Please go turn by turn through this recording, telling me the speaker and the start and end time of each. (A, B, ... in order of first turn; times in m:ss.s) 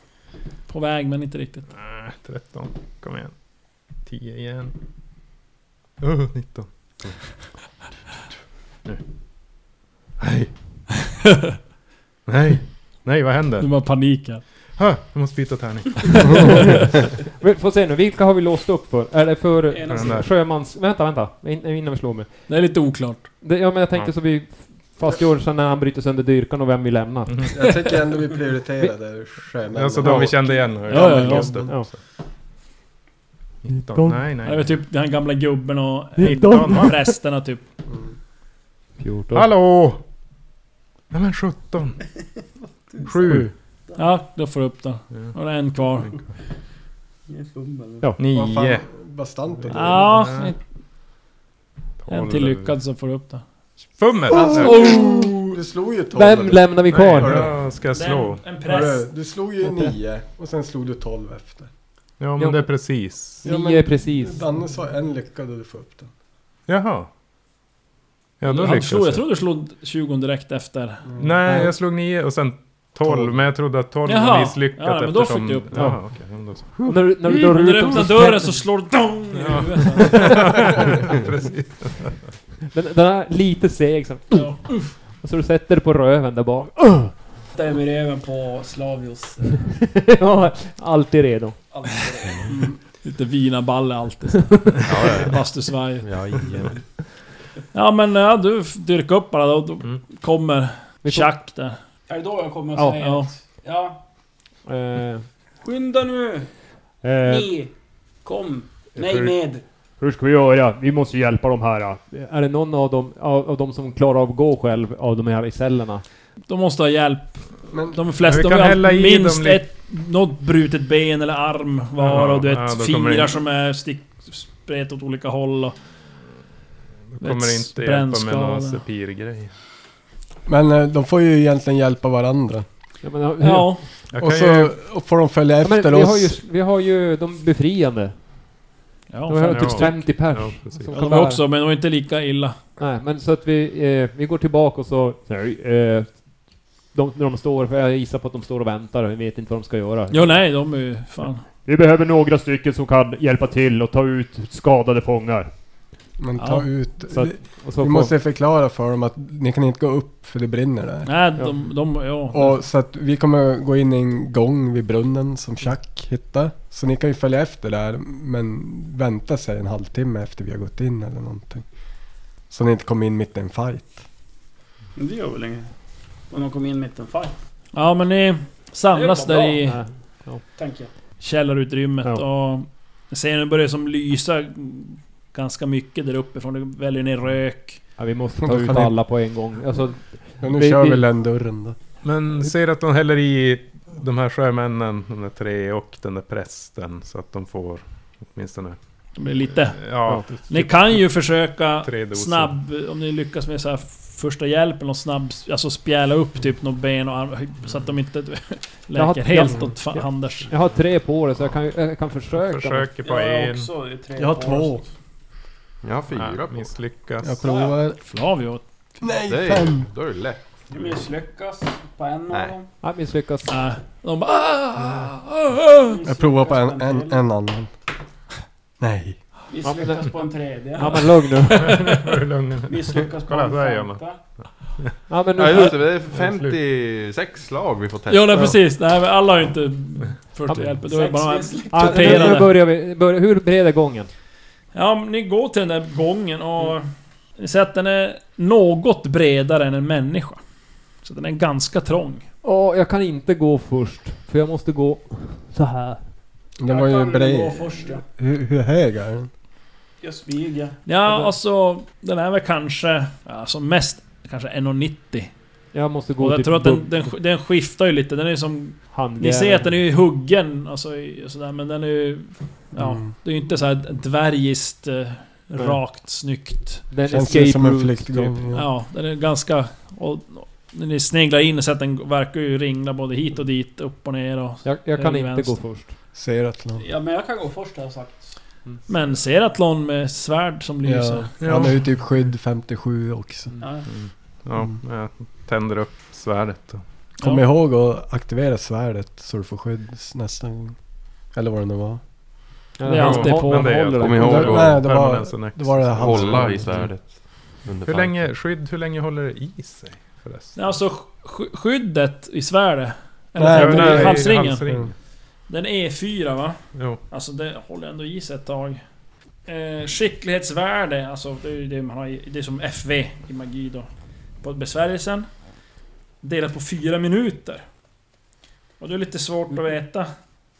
0:00.7-0:01.7 A
0:01.7-0:03.4 B
0:04.0-0:04.7 B
0:06.0-0:07.5 B
0:10.2-0:10.5 B
0:12.2-0:14.0 B
0:13.6-0:14.4 A
0:14.8-0:16.8 B
0:17.4-0:22.7 C
0:19.7-0:20.3 D
0:19.9-0:20.3 B
0:22.5-0:23.3 A
0:23.4-0:27.6 C
0:27.3-0:27.5 B
0:27.5-0:31.8 E
0:29.7-0:32.0 B
0:30.0-0:30.3 C
0:30.9-0:31.6 A
0:33.6-0:34.8 B
0:33.7-0:34.3 C
0:34.4-0:37.6 A
0:36.2-0:37.1 C
0:36.2-0:36.9 B
0:39.0-0:39.5 C
0:39.3-0:40.0 B
0:41.1-0:42.0 B
0:42.9-0:44.1 D
0:43.0-0:43.5 B
0:44.0-0:46.2 A
0:47.3-0:48.1 D
0:48.2-0:48.8 B
0:48.3-0:50.3 E
0:49.7-0:50.6 A
0:49.9-0:50.5 B
0:52.0-0:52.7 B
0:52.1-0:53.4 A
0:54.0-0:54.9 B
0:54.3-0:57.6 E
0:54.6-0:55.3 A
0:54.7-0:55.3 C
0:56.1-0:57.6 C
0:56.9-0:58.4 B
0:57.9-0:59.1 A
0:58.6-1:01.7 E
0:59.6-0:59.9 C
1:02.2-1:03.4 B
1:02.4-1:02.7 C
1:03.4-1:04.4 C
1:03.4-1:06.1 E
1:06.7-1:07.1 B
1:08.4-1:09.2 B
1:08.4-1:11.0 A
1:11.1-1:11.7 E
1:11.2-1:16.9 B
1:13.1-1:13.4 E
1:14.0-1:15.8 A
1:15.7-1:18.6 C
1:17.3-1:20.7 A
1:19.3-1:22.3 B
1:22.7-1:27.2 C
1:24.3-1:24.9 A
1:27.5-1:29.7 D
1:29.7-1:32.1 C
1:31.7-1:32.6 D
1:32.5-1:36.4 A
1:34.8-1:36.8 F
1:37.7-1:41.8 A
1:41.0-1:41.4 C
1:42.1-1:44.0 D
1:43.0-1:43.3 A
1:44.6-1:45.2 C
1:45.6-1:46.5 D
1:47.0-1:47.5 C
1:47.2-1:47.7 D
1:48.2-1:49.6 D
1:49.0-1:49.4 B
1:50.0-1:56.0 C
1:56.5-2:05.8 A
1:57.7-1:58.0 E
1:58.2-1:59.6 B
2:02.0-2:03.4 B
2:07.1-2:09.5 B
2:07.2-2:08.8 A
2:10.4-2:12.6 E
2:13.0-2:13.9 C
2:13.4-2:13.8 A
2:14.1-2:14.7 B
2:14.2-2:16.4 E
2:15.6-2:18.6 C
2:19.1-2:20.1 A
2:19.3-2:21.4 C
2:19.5-2:20.9 B
2:20.9-2:22.6 A
2:22.8-2:30.5 C
2:30.1-2:31.4 A
2:31.6-2:35.5 C
2:36.2-2:41.3 E
2:36.4-2:36.7 A
2:37.0-2:38.1 C
2:41.0-2:42.6 A
2:42.3-2:51.7 E
2:52.5-2:54.0 E
2:55.0-2:55.7 D
2:56.3-2:57.4 D
2:57.7-2:59.8 A
2:58.9-2:59.6 D
2:59.6-3:00.4 C
3:00.5-3:00.9 D
3:01.2-3:07.8 A
3:08.0-3:11.0 C
3:08.4-3:09.0 E
3:10.4-3:11.8 E
3:12.0-3:22.5 B
3:19.2-3:30.5 A
3:28.9-3:32.9 C
3:32.3-3:33.7 B
3:33.0-3:34.8 D
3:34.2-3:34.8 E
3:35.8-3:36.8 F
3:36.1-3:37.4 B
3:37.2-3:38.0 E
3:37.4-3:37.7 D
3:38.0-3:38.6 A
3:39.0-3:39.9 E
3:39.3-3:40.4 F
3:40.7-3:42.7 D
3:42.3-3:42.6 F
3:42.8-3:43.6 C
3:43.5-3:46.0 A
3:45.9-3:47.2 D
3:46.0-3:47.7 E
3:48.8-3:49.2 E
3:49.5-3:51.3 D
3:49.6-3:52.0 C
3:51.5-3:54.8 B
3:52.7-3:54.2 D
3:55.1-3:56.0 C
3:55.4-3:58.6 F
3:55.6-3:56.6 B
3:58.1-4:02.5 A
4:00.5-4:00.7 C
4:00.9-4:02.5 D
4:01.7-4:04.1 C
4:04.7-4:10.4 A
4:11.0-4:12.2 A
4:12.4-4:16.1 C
4:16.6-4:19.3 E
4:16.7-4:18.0 D
4:20.0-4:20.8 D
4:20.9-4:25.3 A
4:21.1-4:21.3 C
4:25.7-4:27.1 C
4:26.2-4:36.9 A
4:28.9-4:29.8 C
4:32.8-4:33.1 E
4:35.6-4:35.8 C
4:36.9-4:38.5 C
4:37.1-4:38.6 E
4:38.5-4:45.6 A
4:44.6-4:46.0 C
4:46.1-4:46.8 E
4:46.8-4:48.4 D
4:48.9-4:51.3 A
4:50.8-4:53.5 E
4:51.4-4:52.0 B
4:53.6-4:53.9 D
4:53.9-4:56.8 B
4:57.2-5:02.1 E
5:02.8-5:04.7 C
5:02.9-5:03.8 A
5:03.0-5:10.7 B
5:04.0-5:04.9 F
5:04.1-5:06.8 E
5:05.9-5:08.3 F
5:10.5-5:14.6 A
5:13.4-5:14.9 E
5:13.5-5:14.9 B
5:15.5-5:18.8 A
5:16.7-5:17.0 B
5:19.4-5:23.9 A
5:24.4-5:25.3 A
5:26.2-5:27.6 A
5:28.8-5:30.1 A